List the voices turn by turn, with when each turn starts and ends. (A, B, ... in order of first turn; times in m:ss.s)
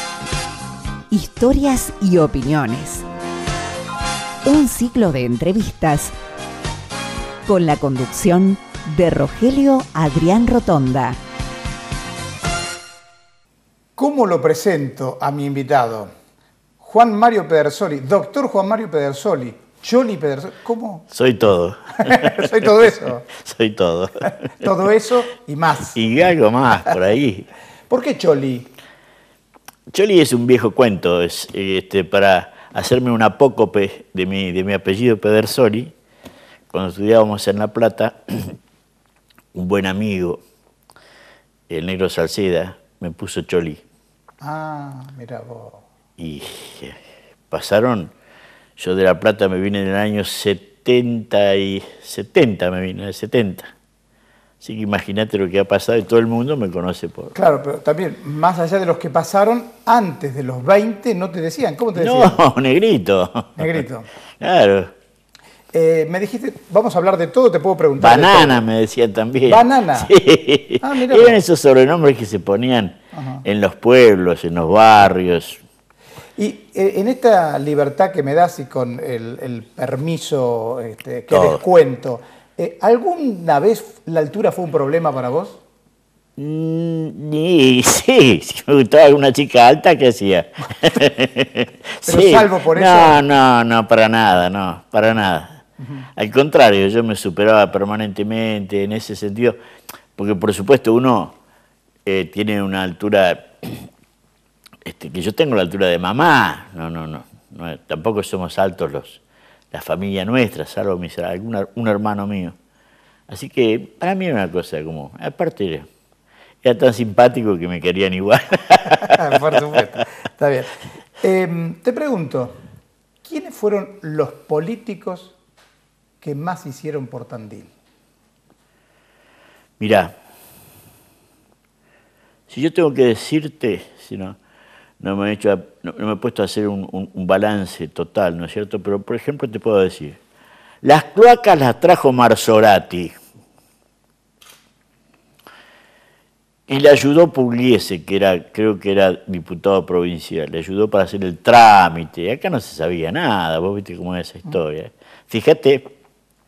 0:01.1-0:03.0 A
0:04.4-0:06.1 A
0:07.4-0:11.2 A
0:14.0-0:16.1 B
0:16.8-0:21.1 B
0:21.1-0:24.7 C
0:22.0-0:23.2 B
0:24.6-0:26.0 B
0:25.9-0:27.5 C
0:27.9-0:28.7 B
0:29.9-0:35.9 C
0:36.7-0:38.6 C
0:39.5-0:40.4 C
0:41.7-0:43.8 C
0:44.4-0:45.8 B
0:46.2-0:47.0 C
0:47.5-0:48.1 C
0:48.8-0:53.7 C
0:54.6-0:57.3 C
0:57.3-1:02.4 B
1:01.9-1:03.8 C
1:03.6-1:04.1 B
1:04.4-1:04.9 C
1:05.7-1:08.6 B
1:08.0-1:15.6 C
1:09.4-1:10.1 B
1:10.8-1:11.4 B
1:13.1-1:13.4 B
1:16.4-1:25.6 B
1:21.3-1:21.6 C
1:26.4-1:35.6 C
1:32.0-1:33.2 B
1:35.8-1:36.1 B
1:36.2-1:39.6 C
1:40.2-1:41.3 C
1:42.0-1:43.9 C
1:44.8-1:49.2 C
1:49.7-1:52.6 C
1:53.3-1:55.9 C
1:56.6-1:59.7 C
1:58.9-2:02.6 B
2:03.2-2:05.3 B
2:06.2-2:07.7 B
2:09.8-2:10.2 C
2:12.5-2:14.4 C
2:15.0-2:20.2 C
2:20.8-2:23.2 C
2:26.7-2:35.9 C